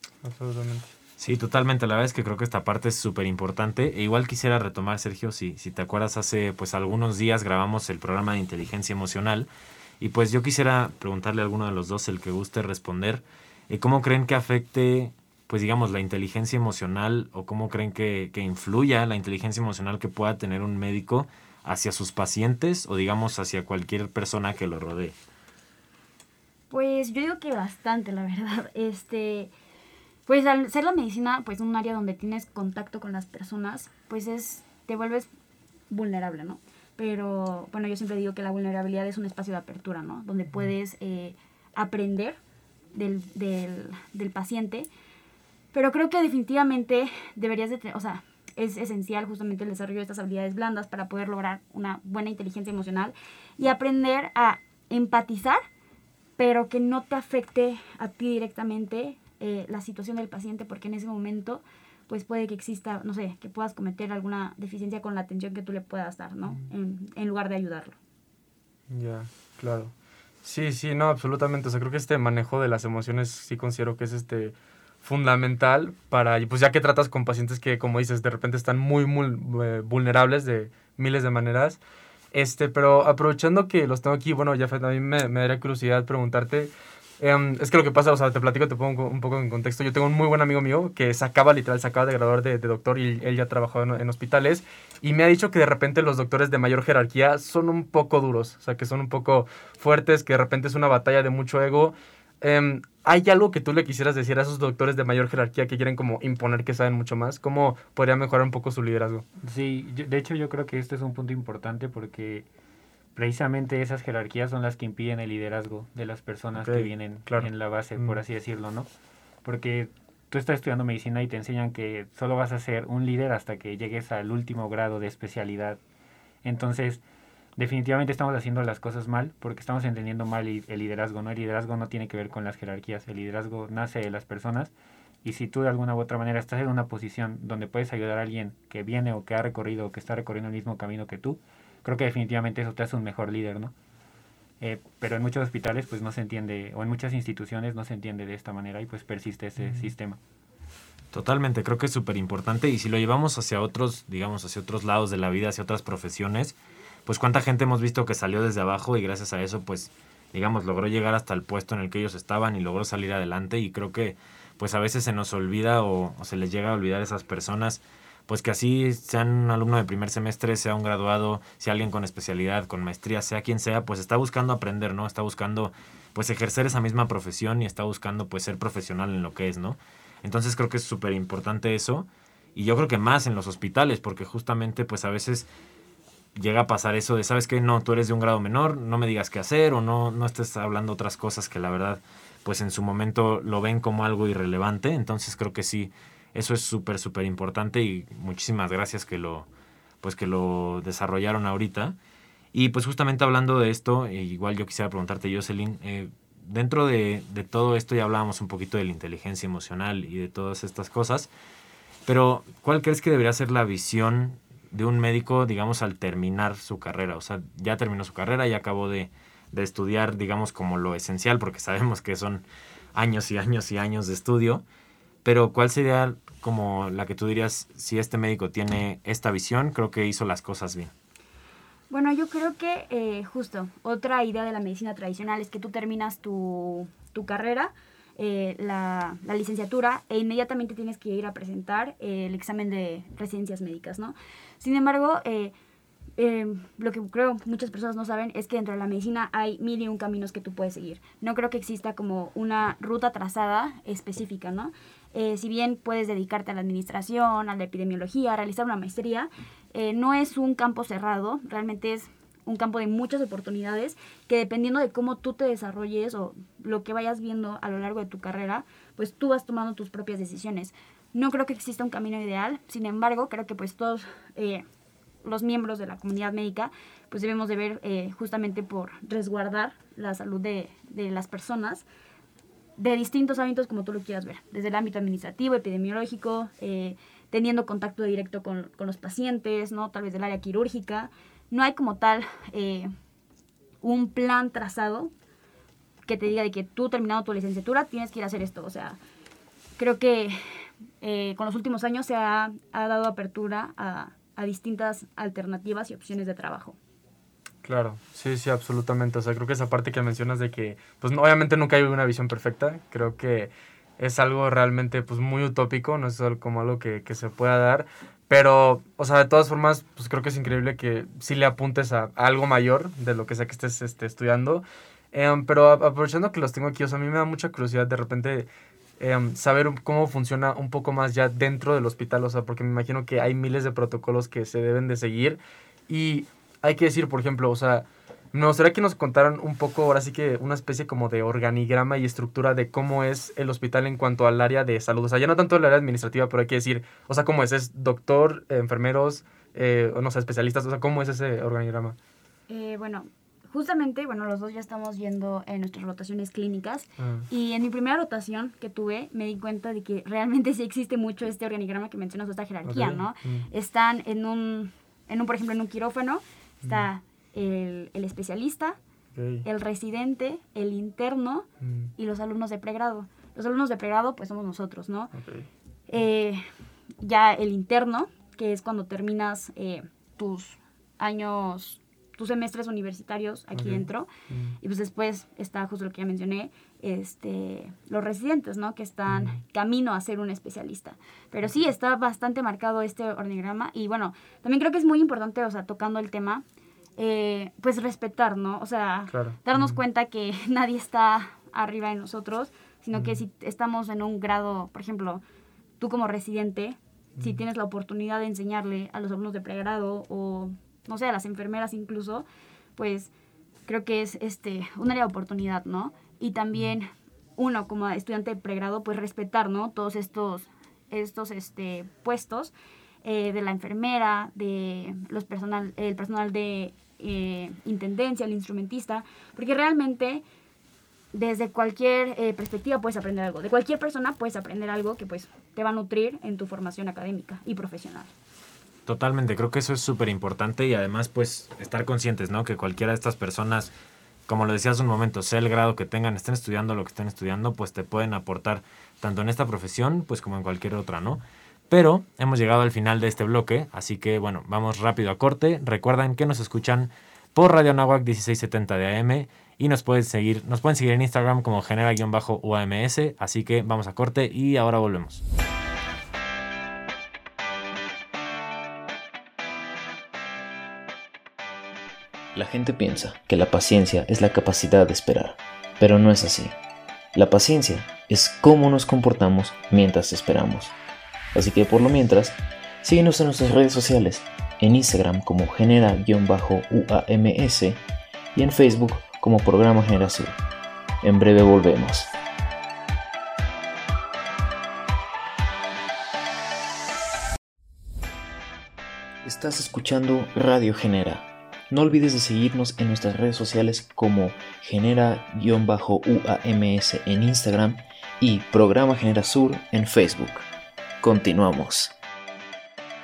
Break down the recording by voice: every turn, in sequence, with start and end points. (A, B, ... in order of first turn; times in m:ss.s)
0:00.2-0:00.9 A
0:01.2-0:09.5 B
0:10.0-0:25.1 B
0:26.7-0:29.5 C
0:30.3-0:35.3 C
0:35.9-0:42.4 C
0:42.9-0:44.9 C
0:45.7-0:55.6 C
0:56.4-1:08.0 C
1:08.9-1:09.9 A
1:10.4-1:21.8 A
1:22.3-1:49.2 A
1:49.4-1:52.5 D
1:53.2-1:58.9 D
1:56.6-1:58.1 A
1:59.4-2:05.8 D
2:06.4-2:07.0 D
2:07.6-2:14.7 D
2:15.2-2:23.7 D
2:24.6-2:30.2 D
2:31.1-3:05.5 B
3:06.4-3:19.5 B
3:20.0-3:22.0 B
3:22.5-3:31.3 B
3:32.1-3:44.6 B
3:45.2-3:50.9 B
3:51.9-4:05.5 C
4:06.2-4:34.6 C
4:35.2-4:41.8 C
4:42.8-4:52.9 C
4:53.8-4:55.1 C
4:56.1-4:59.0 C
4:59.8-5:06.8 C
5:07.6-5:28.5 A
5:29.0-5:52.0 A
5:52.5-6:08.8 C
5:57.0-5:57.3 A
6:02.6-6:03.5 A
6:09.2-6:09.4 A
6:09.4-6:15.1 C
6:11.6-6:11.9 A
6:15.2-6:15.5 A
6:15.9-6:16.5 C
6:17.0-6:24.1 C
6:23.6-6:24.6 A
6:24.6-6:36.4 C
6:29.1-6:29.4 A
6:37.0-6:45.2 C
6:39.1-6:39.8 A
6:45.8-6:52.3 C
6:52.8-6:53.1 C
6:53.7-7:02.5 C
7:03.0-7:10.2 C
7:11.1-7:18.1 C
7:18.9-7:23.7 B
7:24.3-7:45.2 B
7:52.3-7:56.6 E
7:57.2-8:00.8 E
8:01.3-8:07.8 E
8:08.4-8:10.4 E
8:11.0-8:12.1 E
8:19.2-8:30.5 E
8:31.0-8:32.0 E